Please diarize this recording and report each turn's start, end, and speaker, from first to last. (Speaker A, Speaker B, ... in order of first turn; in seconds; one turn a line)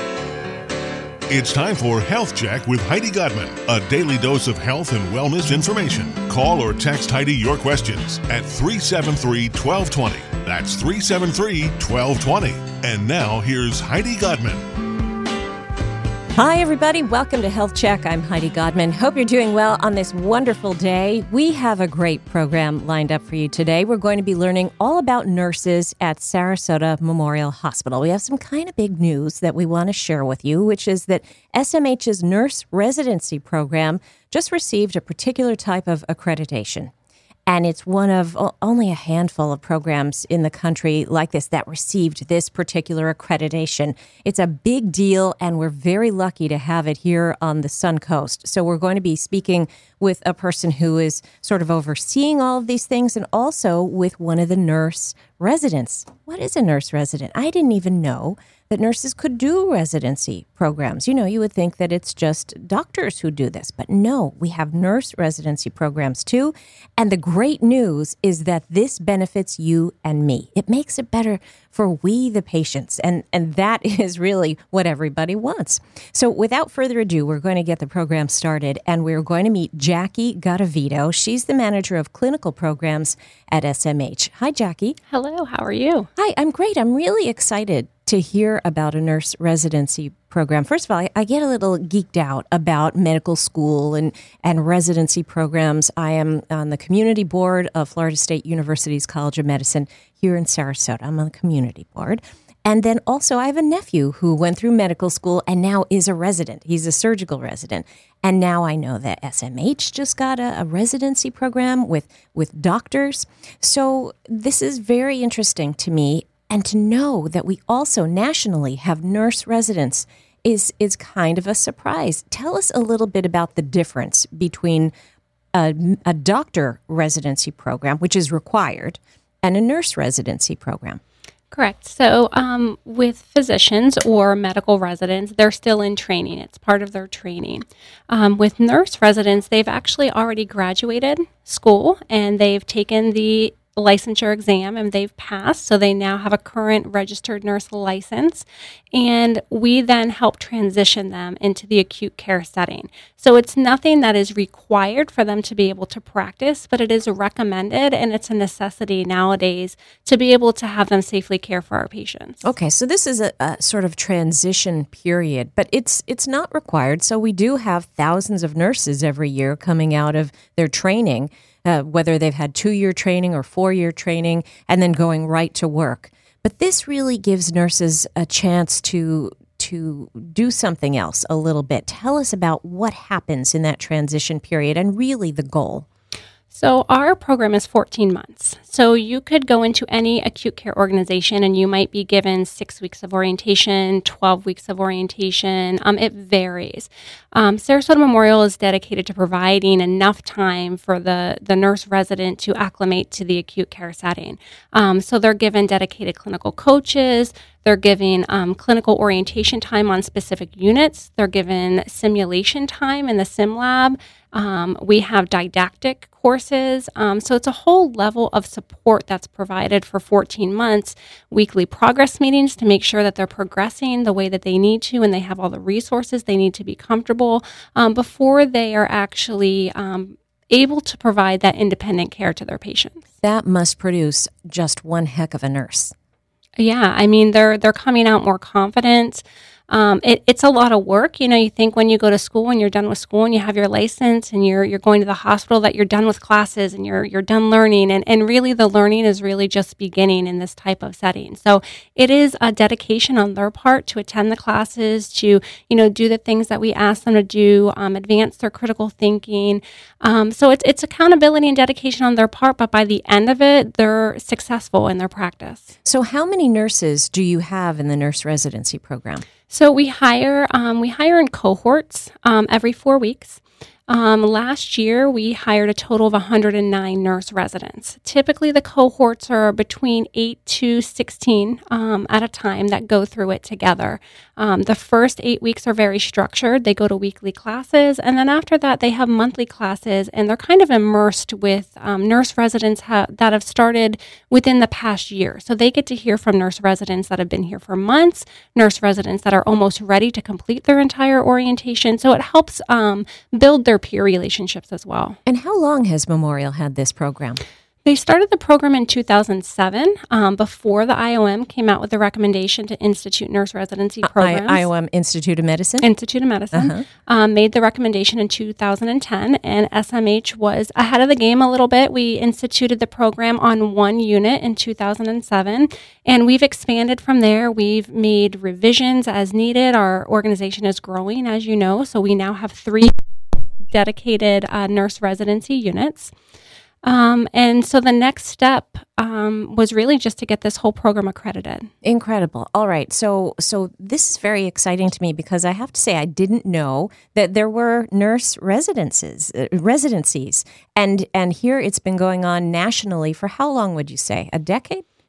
Speaker A: 1.3-14.6
Speaker B: 16.3-36.9
Speaker B: 37.5-85.0
Speaker C: 85.1-86.1
Speaker B: 86.2-124.9
Speaker B: 125.5-131.0
Speaker C: 131.5-162.4
Speaker B: 162.4-185.8
Speaker C: 186.5-233.0
Speaker B: 233.2-235.9
Speaker C: 236.6-265.7
Speaker B: 265.8-269.2
Speaker C: 269.5-305.2
Speaker B: 305.2-307.4
Speaker C: 307.8-314.7
Speaker B: 314.0-315.9
Speaker C: 315.8-332.9
Speaker B: 316.5-316.9
Speaker C: 333.7-336.1
Speaker C: 336.8-341.7
Speaker B: 341.8-354.8